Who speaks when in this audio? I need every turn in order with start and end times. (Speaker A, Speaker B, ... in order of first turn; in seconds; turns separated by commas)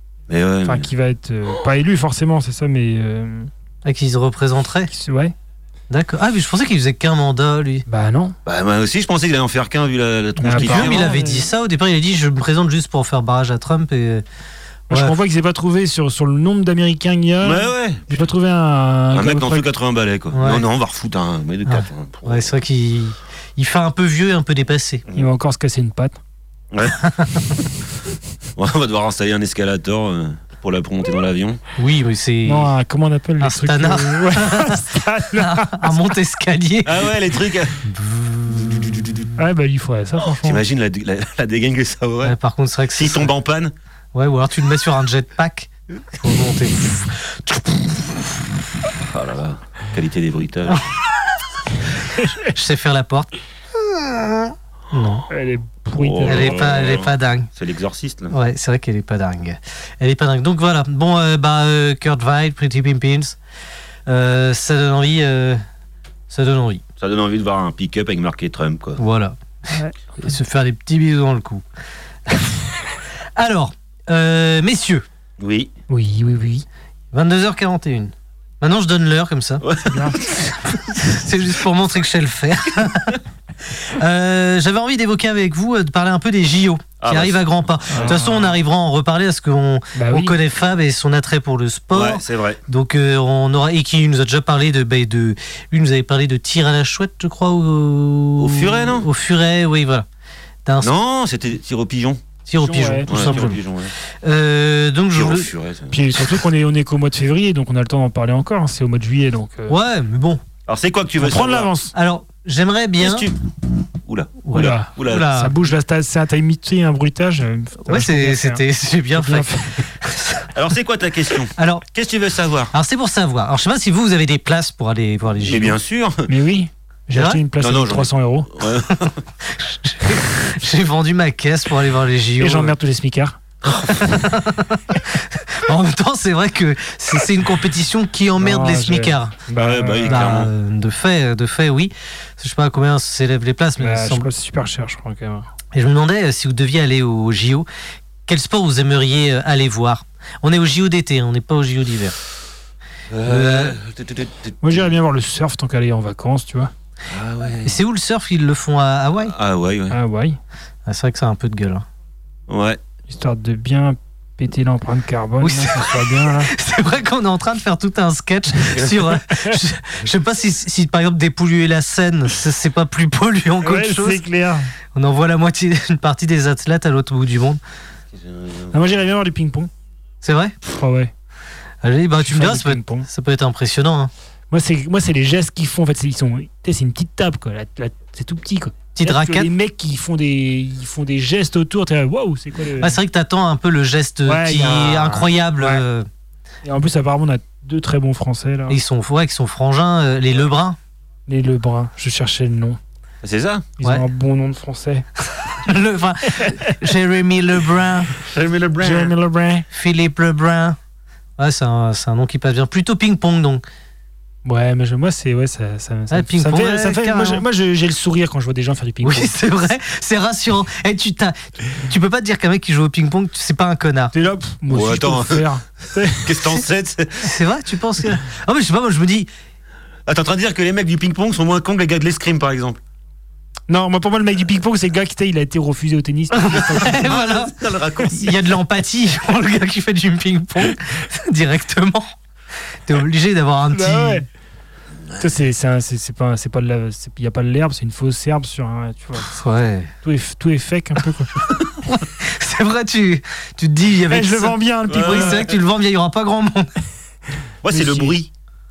Speaker A: 0.3-0.9, Speaker B: 0.6-3.5, Speaker C: 3.8-4.9, Speaker B: 4.9-5.3, Speaker C: 5.9-7.8, Speaker B: 7.9-8.3, Speaker A: 8.4-11.2, Speaker B: 10.4-11.5, Speaker C: 10.5-14.2, Speaker B: 14.9-19.6, Speaker C: 14.9-15.2, Speaker A: 17.4-18.2, Speaker A: 19.1-22.5, Speaker C: 20.3-20.6, Speaker C: 21.6-25.0, Speaker B: 25.1-26.2, Speaker A: 26.7-27.0, Speaker C: 27.0-27.5, Speaker A: 28.6-31.6, Speaker C: 31.8-32.7, Speaker B: 32.4-36.0, Speaker C: 33.4-34.8, Speaker C: 35.3-37.1, Speaker A: 36.8-37.9, Speaker C: 38.1-38.8, Speaker A: 38.5-39.3, Speaker B: 39.4-40.6, Speaker A: 40.4-42.4, Speaker C: 42.2-43.3, Speaker A: 42.9-43.7, Speaker C: 44.1-48.2, Speaker A: 49.0-50.8, Speaker C: 52.4-53.3, Speaker C: 53.9-55.2, Speaker B: 55.3-56.6, Speaker A: 55.9-58.3, Speaker C: 56.2-57.5, Speaker C: 58.3-63.4, Speaker C: 64.1-65.6, Speaker C: 66.3-66.8, Speaker A: 67.0-69.0, Speaker C: 69.0-71.6, Speaker C: 72.3-72.5, Speaker C: 73.3-75.0, Speaker A: 75.4-75.7, Speaker B: 75.9-76.7, Speaker C: 77.1-79.6, Speaker A: 79.6-80.5, Speaker B: 79.8-80.2, Speaker C: 80.7-83.2, Speaker C: 83.8-100.0, Speaker A: 87.0-88.3, Speaker B: 87.9-88.5, Speaker B: 89.9-90.3, Speaker A: 91.9-92.6, Speaker A: 98.4-99.1, Speaker C: 100.6-100.9, Speaker A: 100.8-102.2, Speaker C: 102.5-103.6, Speaker B: 102.6-103.5, Speaker A: 103.1-103.9, Speaker C: 104.2-105.5, Speaker A: 105.1-106.4, Speaker B: 105.9-109.7, Speaker C: 109.7-110.4, Speaker A: 110.7-111.7, Speaker B: 111.2-111.9, Speaker C: 111.9-113.3, Speaker A: 113.0-113.3, Speaker A: 114.0-115.3, Speaker C: 114.4-115.5, Speaker B: 114.5-118.6, Speaker C: 117.8-120.5, Speaker B: 119.2-119.8, Speaker A: 120.5-122.7, Speaker C: 121.5-121.8, Speaker C: 122.7-125.8, Speaker A: 125.4-126.3, Speaker B: 126.3-128.5, Speaker C: 127.1-127.4, Speaker A: 127.6-129.2, Speaker C: 129.4-132.7, Speaker B: 132.4-133.4, Speaker C: 133.7-139.3, Speaker B: 138.4-140.4, Speaker A: 139.5-140.5, Speaker C: 140.0-144.3, Speaker B: 143.8-145.5, Speaker C: 145.7-147.7, Speaker C: 148.3-152.2, Speaker A: 153.1-154.9, Speaker C: 153.2-153.8, Speaker B: 154.6-156.7, Speaker A: 157.1-157.8, Speaker C: 157.6-159.3, Speaker A: 159.2-160.0, Speaker B: 159.9-160.4, Speaker C: 160.8-161.8, Speaker A: 162.5-162.8, Speaker B: 163.1-166.5, Speaker C: 165.4-174.2, Speaker B: 173.6-174.7, Speaker C: 174.9-177.6, Speaker A: 178.1-178.9, Speaker B: 178.7-179.7, Speaker C: 180.2-180.5, Speaker B: 180.7-181.1, Speaker C: 181.8-184.1, Speaker B: 182.2-183.1, Speaker B: 184.5-193.0, Speaker C: 188.9-189.5, Speaker C: 192.8-196.1, Speaker B: 194.2-195.8, Speaker B: 196.6-198.8, Speaker C: 198.7-200.8, Speaker B: 201.3-202.8, Speaker A: 203.2-203.7, Speaker B: 203.8-205.1, Speaker C: 205.6-208.2, Speaker A: 208.2-209.1, Speaker B: 208.8-209.6, Speaker C: 209.7-210.8, Speaker C: 211.4-213.6, Speaker B: 214.4-219.3, Speaker C: 216.1-217.4, Speaker C: 219.0-224.1, Speaker B: 224.1-226.4, Speaker A: 224.7-225.5, Speaker A: 226.2-227.3, Speaker C: 227.2-229.3, Speaker A: 230.1-232.8, Speaker B: 233.7-237.1, Speaker C: 236.3-242.1, Speaker A: 236.6-238.4, Speaker C: 242.8-244.2, Speaker B: 243.7-244.3, Speaker B: 245.2-249.3, Speaker C: 249.2-249.9, Speaker B: 250.0-251.3, Speaker C: 251.8-256.7, Speaker B: 254.1-255.5, Speaker A: 254.9-255.6, Speaker A: 257.6-258.3, Speaker B: 257.7-258.1